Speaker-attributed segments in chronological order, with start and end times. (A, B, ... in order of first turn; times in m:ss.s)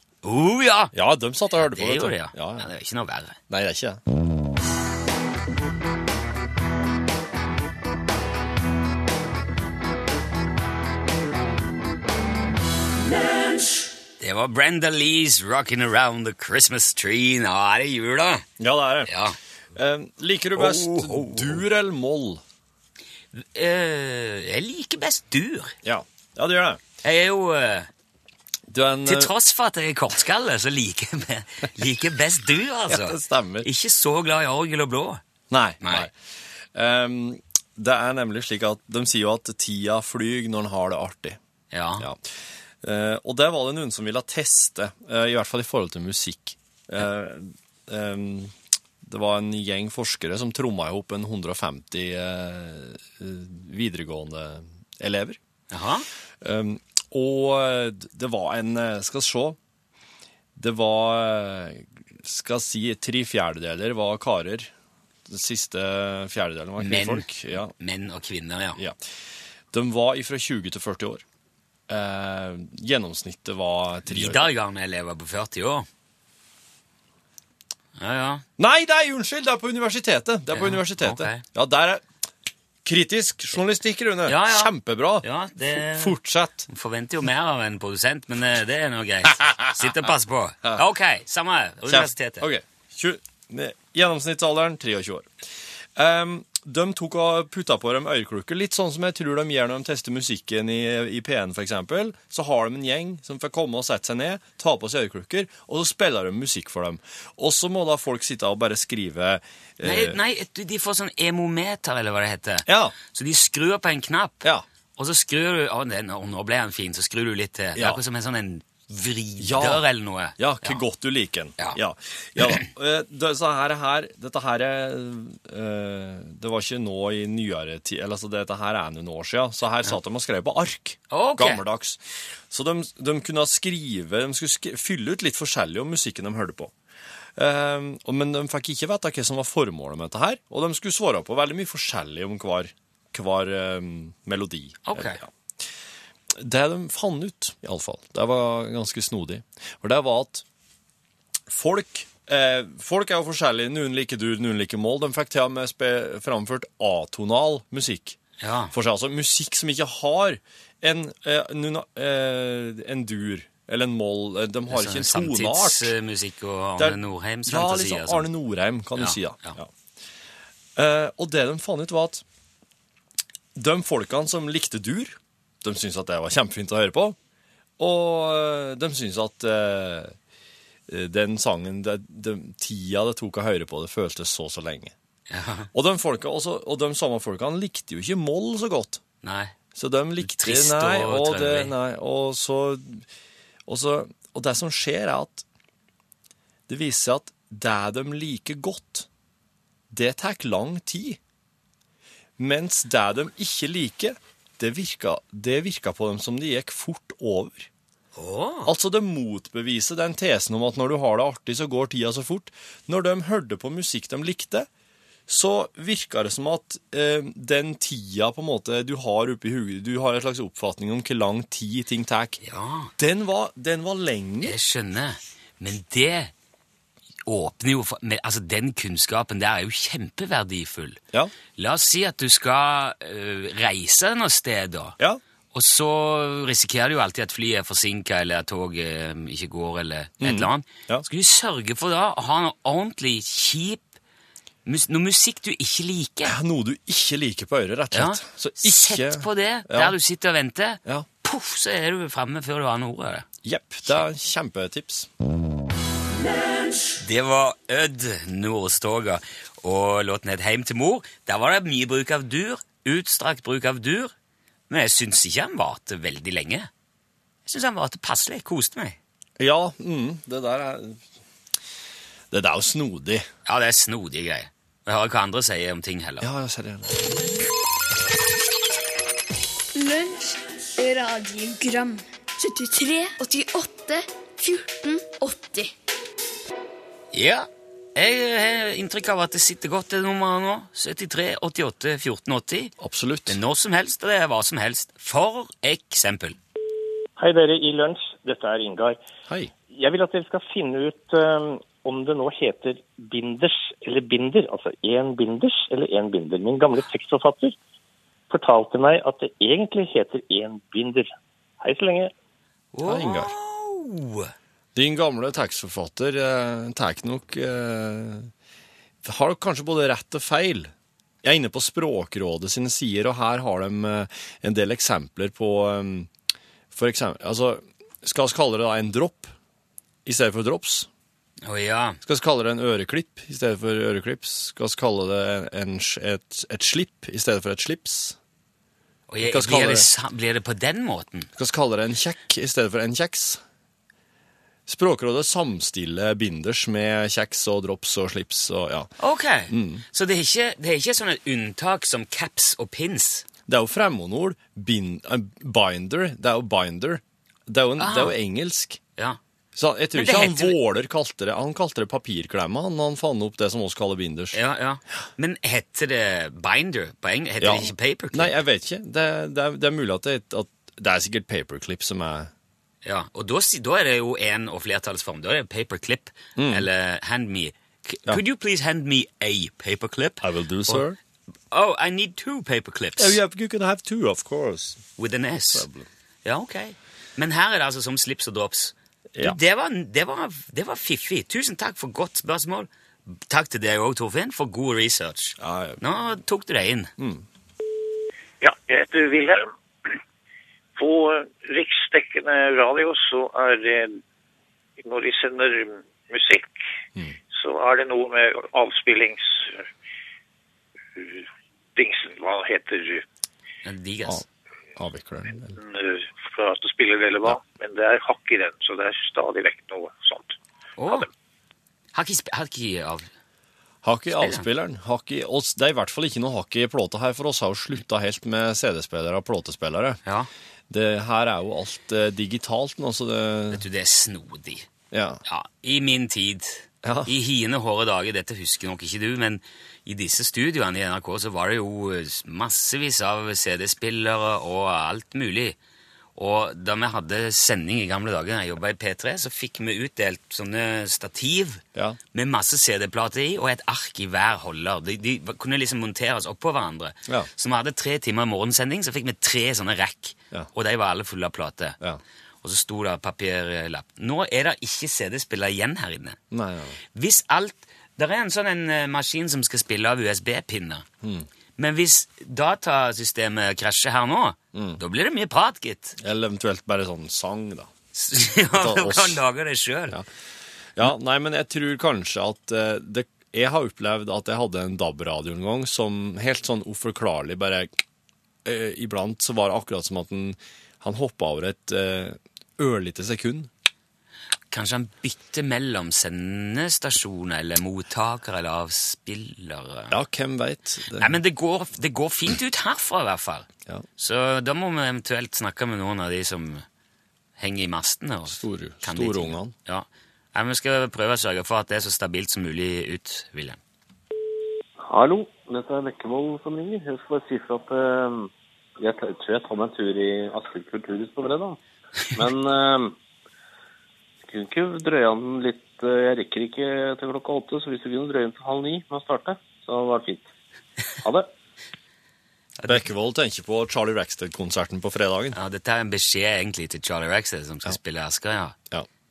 0:00.2-0:00.9 A
0:00.9-0:02.7 B
0:01.5-0:03.4 A
0:03.5-0:04.0 B
0:14.2-0:18.5 A
0:18.6-0:19.1 B
0:19.1-0:19.4 A
0:19.8-0:22.4 B
0:20.6-0:21.6 A
0:23.3-0:25.8 A
0:25.8-0:26.8 B
0:27.0-0:27.9 A
0:28.7-0:29.3 B
0:29.1-0:35.2 A
0:32.9-0:33.7 B
0:35.5-0:41.4 B
0:35.8-0:36.1 A
0:41.7-0:42.1 A
0:42.8-0:55.4 B
0:55.7-0:56.1 A
0:56.4-0:59.6 B
1:00.6-1:04.7 B
1:05.3-1:07.7 B
1:06.8-1:08.8 A
1:09.7-1:11.2 B
1:11.9-1:14.5 B
1:14.1-1:15.9 A
1:18.0-1:18.4 A
1:18.6-1:22.0 B
1:20.5-1:21.4 A
1:22.8-1:26.7 B
1:24.3-1:26.2 A
1:26.7-1:32.5 A
1:29.4-1:29.7 B
1:31.9-1:50.2 B
1:49.8-1:54.4 A
1:52.7-1:53.0 B
1:55.0-2:00.8 A
1:59.4-2:16.7 B
2:02.4-2:02.7 A
2:11.1-2:11.6 A
2:17.4-2:25.3 B
2:24.9-2:25.2 A
2:26.3-2:30.4 B
2:31.5-2:38.2 B
2:38.4-2:38.7 A
2:38.7-2:45.9 B
2:44.7-2:48.3 A
2:46.8-2:49.7 B
2:49.0-2:49.6 A
2:50.8-2:52.2 B
2:53.6-2:57.2 B
2:57.8-3:00.2 B
3:00.9-3:04.9 B
3:05.3-3:05.7 A
3:05.7-3:09.0 B
3:09.2-3:09.6 A
3:09.8-3:13.1 B
3:10.2-3:11.7 A
3:13.7-3:15.5 B
3:16.7-3:19.1 B
3:19.9-3:21.2 B
3:22.4-3:27.7 B
3:28.2-3:28.7 A
3:28.6-3:34.7 B
3:35.3-3:42.4 B
3:42.4-3:42.9 A
3:43.0-3:44.6 B
3:44.4-3:46.3 A
3:47.3-3:51.0 A
3:51.6-3:55.0 A
3:55.5-4:03.9 A
4:00.2-4:01.1 B
4:04.7-4:06.4 A
4:06.2-4:10.0 B
4:07.9-4:13.3 A
4:13.4-4:15.1 B
4:17.0-4:24.1 A
4:24.7-4:26.7 A
4:27.5-4:29.0 A
4:29.4-4:31.0 B
4:32.3-4:33.3 B
4:33.5-4:36.3 A
4:36.2-4:37.2 B
4:39.8-4:45.7 C
4:47.1-4:52.7 A
4:52.8-4:53.4 B
4:53.3-4:56.4 A
4:57.2-4:59.0 D
4:59.7-5:07.6 D
5:08.3-5:12.1 D
5:12.7-5:14.3 A
5:12.8-5:13.3 B
5:14.8-5:18.3 B
5:19.0-5:20.7 B
5:21.2-5:26.1 B
5:26.7-5:29.3 B
5:30.0-5:30.9 B
5:31.4-5:32.0 A
5:32.0-5:38.2 B
5:39.1-5:41.3 A
5:39.2-5:39.9 B
5:41.4-5:43.4 B
5:44.7-5:48.9 B
5:49.0-5:53.2 A
5:49.5-5:49.8 B
5:53.5-5:58.8 B
5:57.8-5:58.2 A
5:59.6-6:04.4 B
5:59.9-6:00.6 A
6:04.3-6:08.4 A
6:07.4-6:12.3 B
6:12.8-6:20.8 A
6:16.4-6:16.7 B
6:20.2-6:21.0 B
6:21.5-6:23.2 A
6:23.0-6:24.9 B
6:25.0-6:25.7 A
6:25.5-6:25.9 B
6:26.2-6:36.9 A
6:29.1-6:29.4 B
6:35.4-6:35.8 B
6:37.0-6:37.2 B
6:38.4-6:39.9 E
6:40.8-6:44.0 E
6:44.8-6:46.6 E
6:47.3-6:49.7 E
6:51.0-6:53.0 E
6:53.6-6:54.2 A
6:54.0-6:55.6 B
6:55.6-7:00.4 E
7:00.8-7:01.1 A
7:01.9-7:03.1 A
7:03.8-7:10.0 B
7:04.2-7:04.5 A
7:10.7-7:13.6 B
7:13.5-7:14.7 A
7:14.9-7:15.2 B
7:15.3-7:25.6 A
7:16.8-7:17.1 B
7:26.2-7:41.8 A
7:42.4-7:46.2 A
7:46.3-7:46.8 B
7:46.9-7:50.9 A
7:51.0-7:51.3 B
7:51.6-7:56.0 A
7:54.5-7:54.8 B
7:56.0-7:57.7 B
7:57.9-8:00.0 A
7:58.5-7:59.2 B
8:00.8-8:07.7 B
8:08.4-8:13.5 B
8:14.5-8:20.0 A
8:19.9-8:21.2 B
8:21.0-8:26.6 A
8:27.4-8:33.6 A
8:28.3-8:29.5 B
8:34.9-8:41.6 F
8:42.2-8:43.0 F
8:44.3-8:50.3 F
8:51.0-8:51.3 F
8:52.6-8:52.8 A
8:52.7-8:55.4 B
8:55.3-8:58.6 A